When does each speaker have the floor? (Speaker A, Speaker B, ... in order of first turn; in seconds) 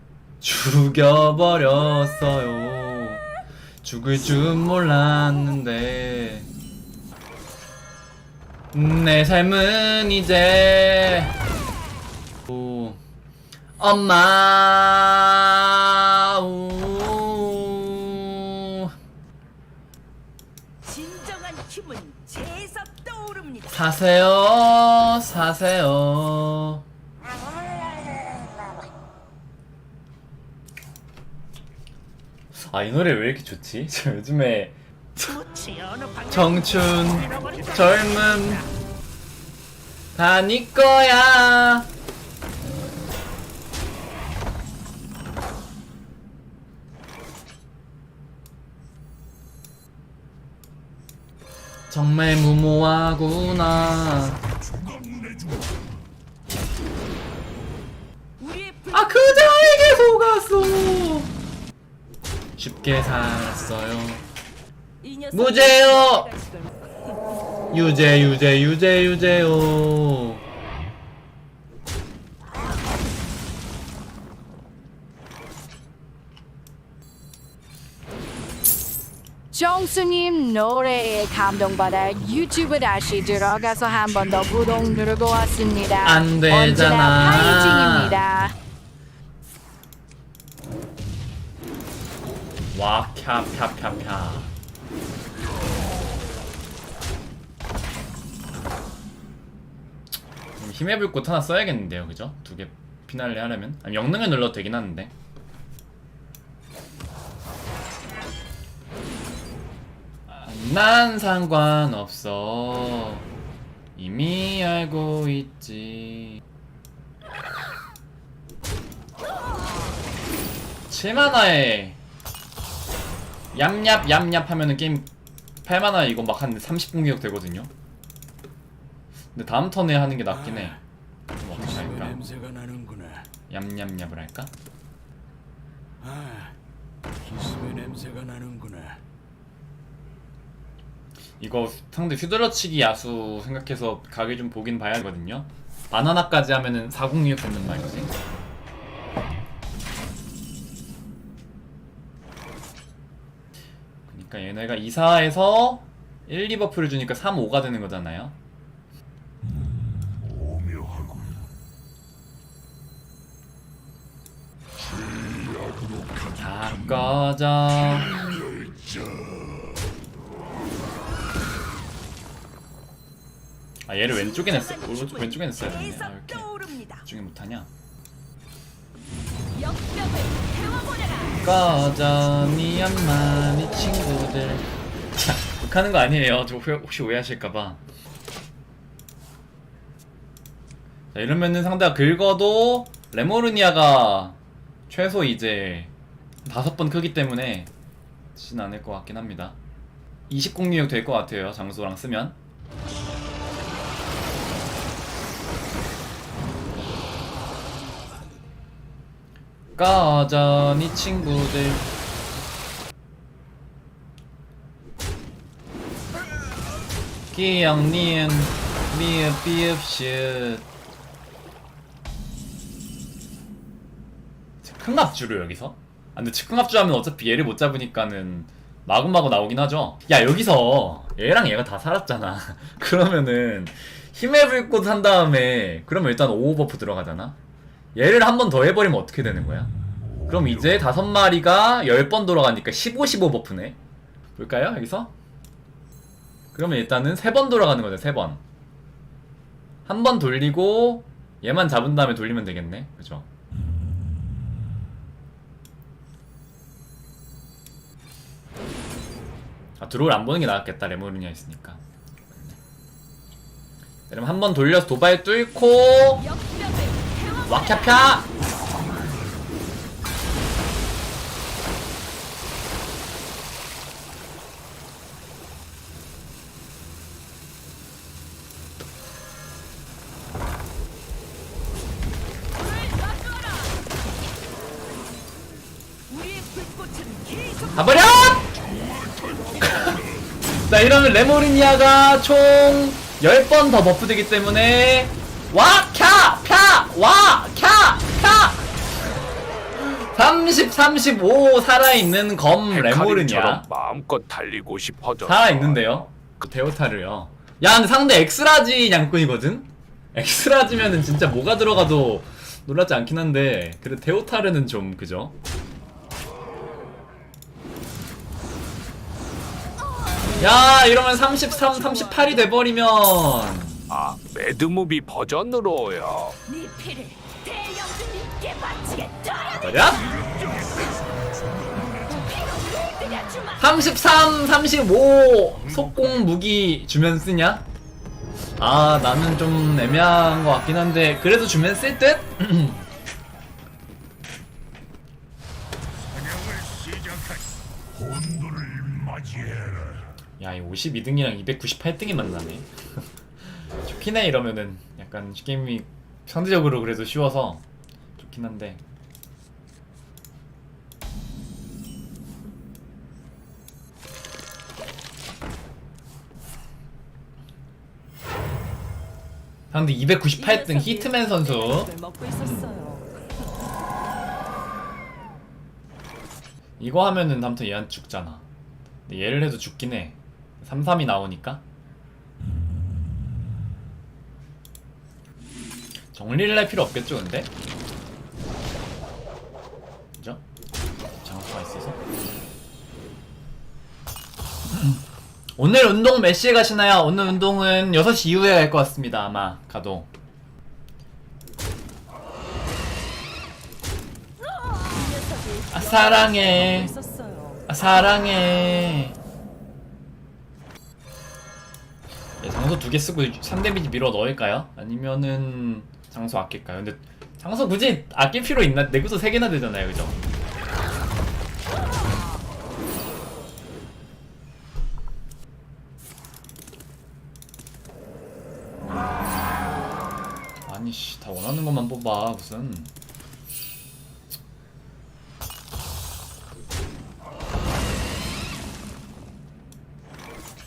Speaker A: 0.4-3.2, 3.8-6.5, 8.7-11.3, 12.4-13.0, 13.8-18.9, 23.7-26.8, 32.6-35.4, 36.2-38.6, 40.1-41.9, 51.9-54.4, 58.9-61.3, 62.6-64.2, 65.3-66.3, 67.7-70.4, 86.0-88.2, 92.7-94.5, 100.6-105.1, 110.3-113.3, 114.0-116.4, 120.9-122.0, 123.5-125.1, 125.7-127.7, 129.3-130.8, 131.4-132.2, 133.5-134.5, 141.4-148.1, 154.1-158.4, 166.3-168.4, 173.9-176.5, 177.0-177.7, 181.4-187.8, 191.1-194.4, 194.9-195.9, 196.4-197.7, 198.3-199.6, 200.3-202.4, 209.8-211.9, 217.3-220.7, 224.6-237.4, 237.9-239.7, 240.3-243.8, 244.4-245.1, 246.5-248.4, 249.9-253.3, 259.8-262.6, 264.1-266.2, 267.5-268.3, 287.8-288.5, 289.6-290.0, 290.6-298.6, 299.8-303.7, 305.2-315.4, 320.4-323.8, 329.6-330.1, 333.6-337.7, 338.6-342.8, 350.4-352.7, 353.6-357.6, 358.2-358.8, 369.7-372.7, 376.8-378.4, 379.1-381.6, 386.1-387.5, 390.1-390.4, 391.2-392.0, 394.7-395.0, 395.6-400.1, 405.7-406.9, 407.7-409.2, 412.4-420.2, 430.7-432.9
Speaker B: 20.8-23.8, 58.4-60.2, 65.0-66.7, 174.1-177.1, 179.5-181.4, 266.2-268.2, 282.6-283.7, 286.1-288.4, 320.0-322.6, 326.5-330.2, 332.1-333.6, 370.4-373.1, 404.8-407.6
Speaker C: 79.5-88.6
Speaker D: 131.8-133.3, 136.0-136.5, 137.2-139.0
Speaker E: 302.7-306.0, 323.9-326.4, 348.1-350.0